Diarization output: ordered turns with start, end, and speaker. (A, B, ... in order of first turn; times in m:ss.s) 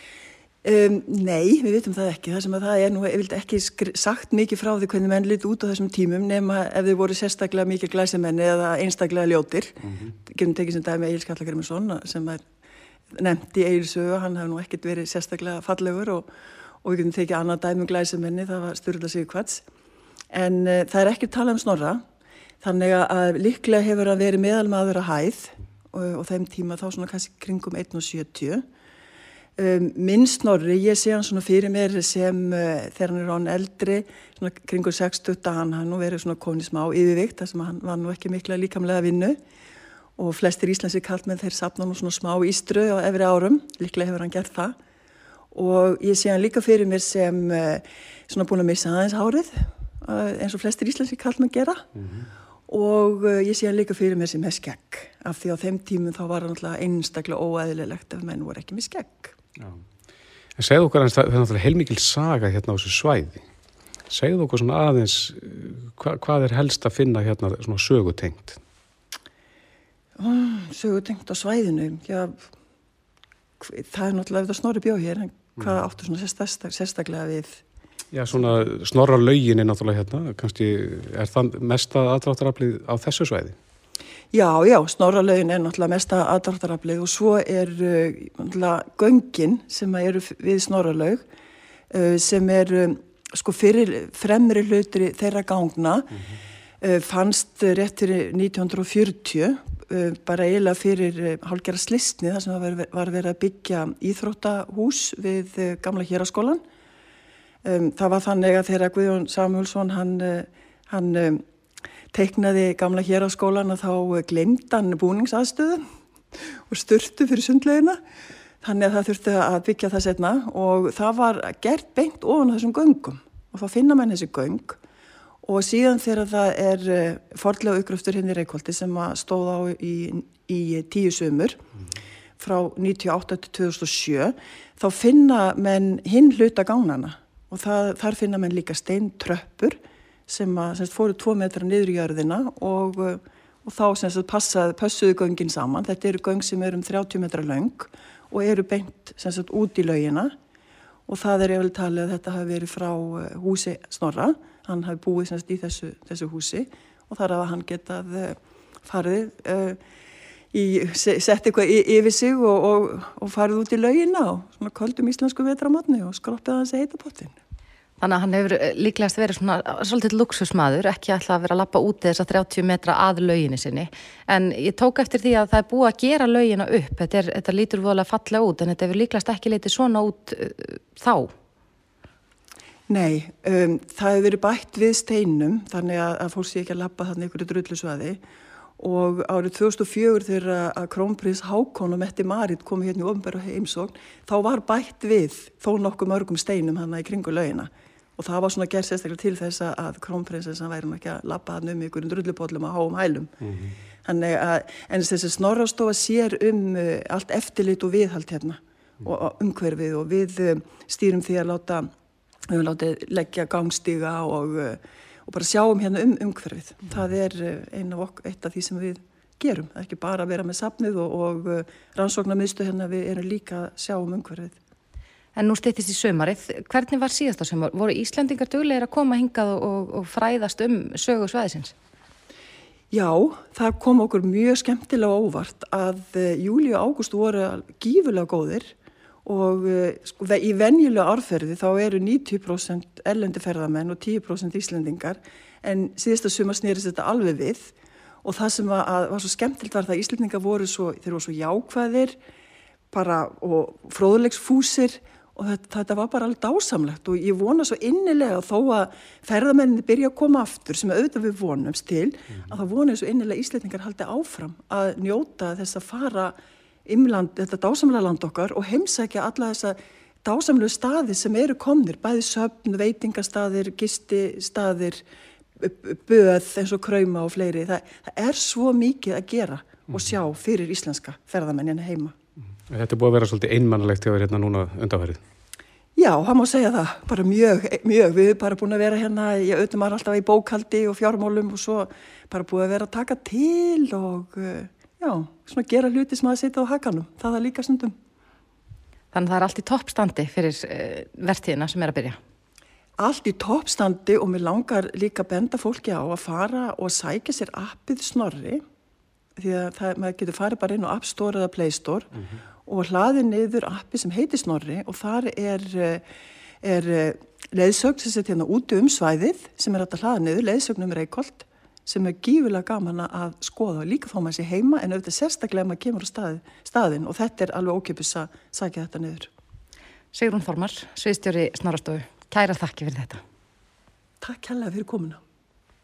0:00.6-0:12.4 A
0:13.1-0:16.3 A
0:16.8-0:19.6 A
0:20.3-0:22.0 A
0:22.6-0:28.6 A
0:29.6-0:39.4 A
0:40.2-0:44.8 A
0:45.5-0:51.8 A
0:52.0-0:52.3 B
0:52.7-0:59.3 A
1:00.6-1:03.4 B
1:04.1-1:08.6 B
1:10.2-1:12.4 A
1:13.6-1:17.6 A
1:18.1-1:23.6 B
1:24.3-1:31.2 A
1:31.9-1:36.1 A
1:36.8-1:46.6 A
1:47.6-1:51.4 A
1:52.1-1:55.8 A
1:56.7-1:58.0 A
1:58.6-2:04.8 A
2:05.4-2:11.6 A
2:12.4-2:30.3 A
2:31.1-2:39.8 A
2:40.5-2:47.3 A
2:48.0-3:01.3 C
3:02.9-3:08.2 A
3:08.8-3:23.4 A
3:24.0-3:31.9 A
3:32.5-3:44.6 A
3:45.4-3:51.7 C
3:52.9-3:58.7 A
3:59.2-4:07.7 A
4:08.2-4:12.2 A
4:12.9-4:35.0 A
4:35.6-4:42.1 A
4:42.7-4:45.2 B
4:46.0-4:57.9 A
4:59.1-5:02.2 C
5:03.0-5:08.6 A
5:09.4-5:12.1 A
5:12.6-5:16.0 A
5:16.6-5:29.3 A
5:30.1-5:33.2 C
5:34.2-5:35.2 A